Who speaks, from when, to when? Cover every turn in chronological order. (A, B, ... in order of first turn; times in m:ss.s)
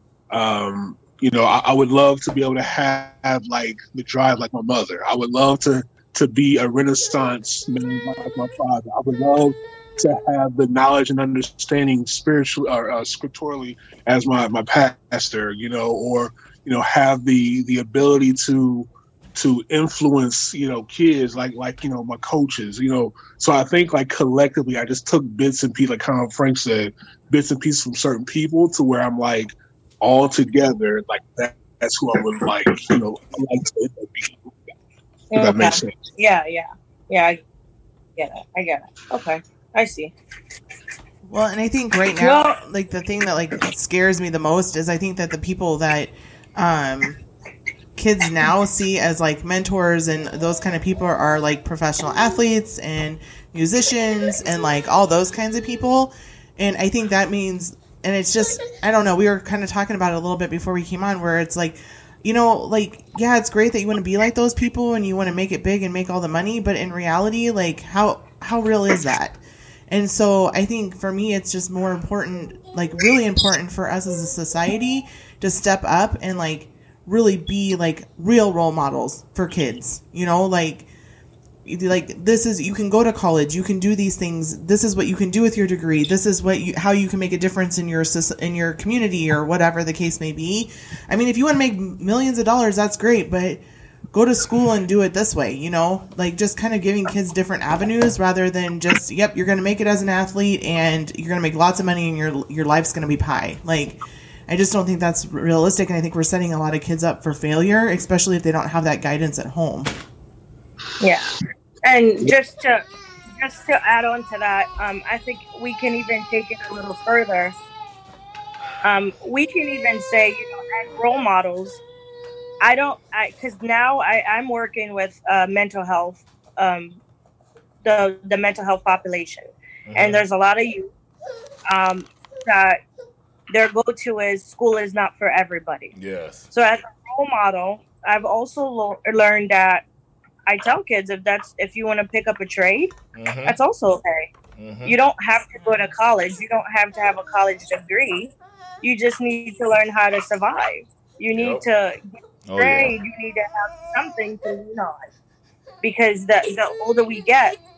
0:00.3-0:34.6 A
0:35.3-0:37.4 B
0:35.4-0:36.1 A
0:38.2-0:40.1 B
0:41.2-0:47.2 C
0:42.2-0:42.6 B
0:48.0-1:20.9 C
1:21.6-1:33.6 C
1:34.1-1:49.9 C
1:51.0-1:51.3 B
1:51.8-1:52.9 B
1:53.4-1:57.5 B
1:58.8-2:01.8 B
2:02.6-2:07.0 B
2:07.8-2:10.9 B
2:09.9-2:10.2 D
2:11.7-2:12.8 B
2:13.5-2:15.9 B
2:15.9-2:16.5 D
2:16.5-2:19.8 B
2:20.5-2:22.9 B
2:23.1-2:23.6 D
2:23.5-2:24.3 B
2:24.6-2:25.0 D
2:24.8-2:32.0 B
2:31.3-2:31.6 D
2:32.5-2:33.0 D
2:32.6-2:35.0 B
2:35.8-2:37.6 B